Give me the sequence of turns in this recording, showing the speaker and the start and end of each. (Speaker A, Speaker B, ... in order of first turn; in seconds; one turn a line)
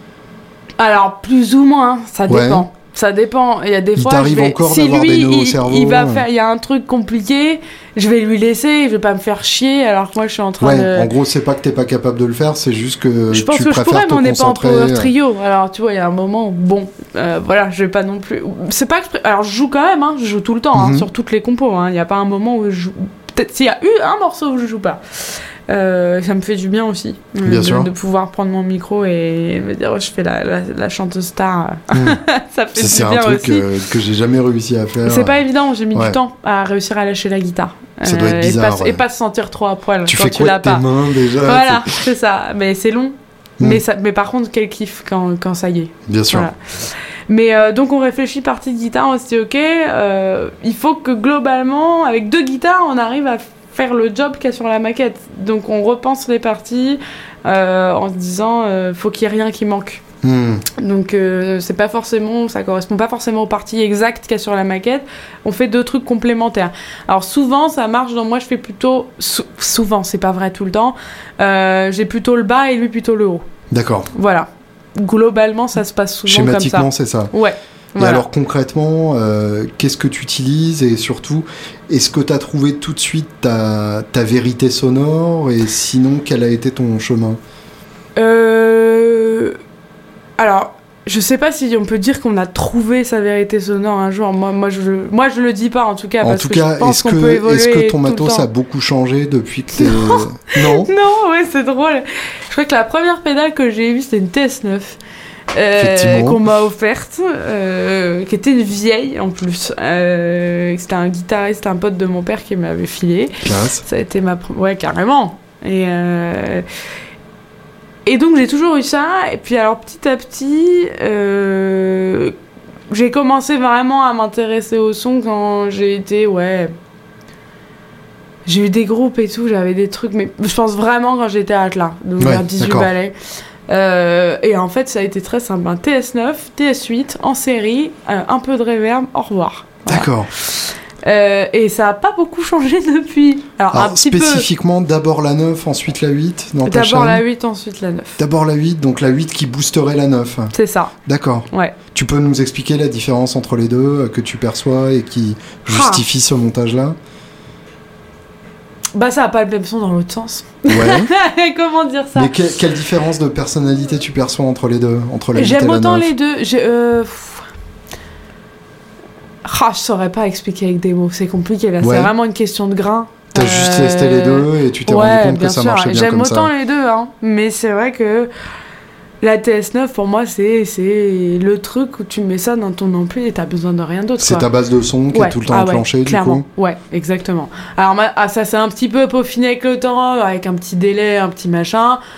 Speaker A: 0.8-11.1
Speaker B: 2.3-2.7
Speaker B: 4.0-6.2
Speaker B: 10.6-15.1
Speaker A: 13.3-33.7
Speaker B: 20.8-21.1
Speaker B: 27.4-27.9
Speaker B: 31.9-32.2
Speaker B: 32.8-35.4
Speaker A: 35.0-60.0
Speaker B: 38.1-39.0
Speaker B: 40.0-41.9
Speaker B: 46.1-46.5
Speaker B: 60.2-60.6
Speaker A: 60.8-73.5
Speaker B: 73.7-74.1
Speaker A: 74.1-78.2
Speaker B: 76.3-77.3
Speaker B: 78.0-87.4
Speaker A: 88.2-89.6
Speaker A: 90.4-98.5
Speaker B: 96.2-100.9
Speaker A: 99.8-105.0
Speaker A: 105.5-116.6
Speaker B: 105.8-106.4
Speaker B: 113.5-113.8
Speaker A: 118.1-122.3
Speaker A: 122.9-126.7
Speaker A: 128.5-133.1
Speaker B: 132.2-132.9
Speaker A: 133.7-144.5
Speaker B: 139.9-140.3
Speaker B: 143.7-147.2
Speaker A: 146.7-148.2
Speaker B: 148.2-150.5
Speaker A: 150.5-150.9
Speaker B: 151.1-157.0
Speaker A: 151.5-151.8
Speaker A: 155.7-156.0
Speaker A: 158.9-162.3
Speaker B: 160.7-161.1
Speaker B: 162.2-166.1
Speaker A: 165.3-167.5
Speaker A: 169.4-178.3
Speaker B: 171.8-172.1
Speaker B: 173.3-176.5
Speaker A: 179.2-184.4
Speaker B: 184.2-186.4
Speaker A: 185.1-192.0